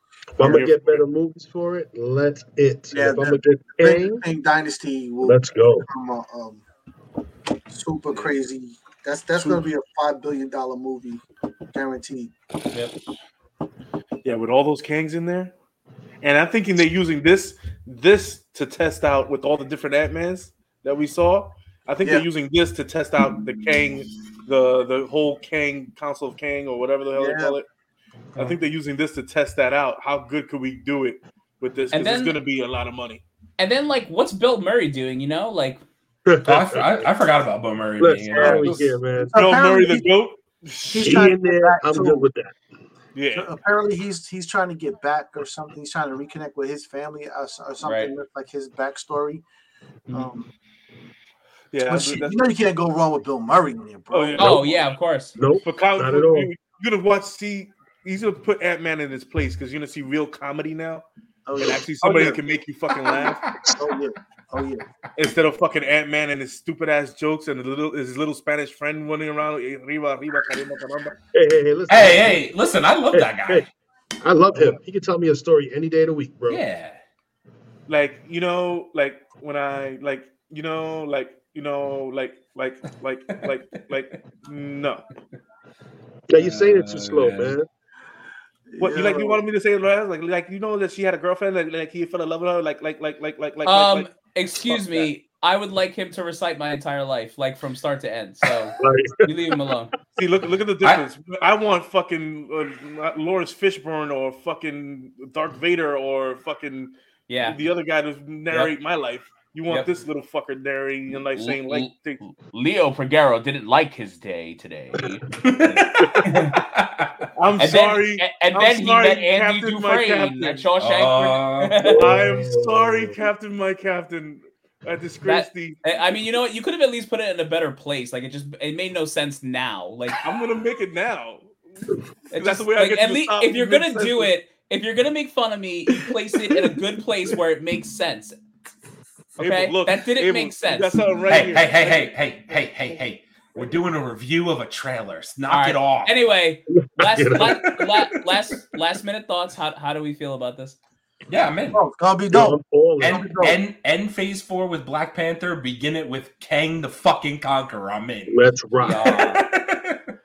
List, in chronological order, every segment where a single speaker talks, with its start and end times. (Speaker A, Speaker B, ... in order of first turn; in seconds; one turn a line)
Speaker A: 0.3-4.2
Speaker B: 0.4-1.0
Speaker C: 2.9-6.6
Speaker A: 5.2-5.9
Speaker C: 7.7-12.3
Speaker B: 8.1-8.3
Speaker B: 14.2-15.5
Speaker B: 16.2-27.6
Speaker C: 27.1-27.6
Speaker B: 28.4-33.2
Speaker D: 31.9-32.4
Speaker D: 33.6-35.8
Speaker A: 36.3-37.1
Speaker E: 36.4-38.8
Speaker A: 38.0-39.4
Speaker B: 38.4-41.1
Speaker C: 39.2-40.1
Speaker C: 40.9-42.3
Speaker A: 41.0-42.5
Speaker B: 43.1-43.5
Speaker C: 43.3-49.4
Speaker D: 47.8-48.1
Speaker C: 50.1-50.5
Speaker B: 51.7-52.4
Speaker C: 51.9-54.6
Speaker B: 54.1-54.9
Speaker D: 54.4-55.3
Speaker A: 55.4-56.5
Speaker B: 55.6-61.0
Speaker C: 61.5-62.4
Speaker B: 61.6-63.4
Speaker C: 63.8-64.8
Speaker B: 65.2-71.1
Speaker A: 71.3-72.5
Speaker E: 71.9-73.7
Speaker A: 73.1-73.7
Speaker A: 74.2-76.6
Speaker E: 76.5-77.0
Speaker B: 77.9-85.0
Speaker A: 86.3-87.7
Speaker E: 86.3-87.6
Speaker C: 88.7-89.4
Speaker B: 88.8-94.1
Speaker D: 93.6-99.9
Speaker B: 94.7-95.1
Speaker A: 98.8-99.5
Speaker B: 100.2-112.2
Speaker D: 107.3-107.6
Speaker D: 111.3-116.6
Speaker E: 115.4-117.1
Speaker B: 117.3-120.7
Speaker D: 117.6-122.0
Speaker E: 120.8-121.9
Speaker A: 121.8-123.3
Speaker B: 121.9-125.8
Speaker D: 125.2-130.2
Speaker B: 130.2-134.3
Speaker D: 132.3-138.3
Speaker D: 139.4-141.0
Speaker B: 139.4-142.1
Speaker E: 141.3-146.2
Speaker D: 145.5-150.8
Speaker A: 146.7-147.6
Speaker E: 151.3-151.8
Speaker C: 151.7-153.6
Speaker A: 152.3-153.2
Speaker E: 153.0-158.3
Speaker A: 158.3-159.1
Speaker D: 158.8-159.4
Speaker E: 158.9-160.1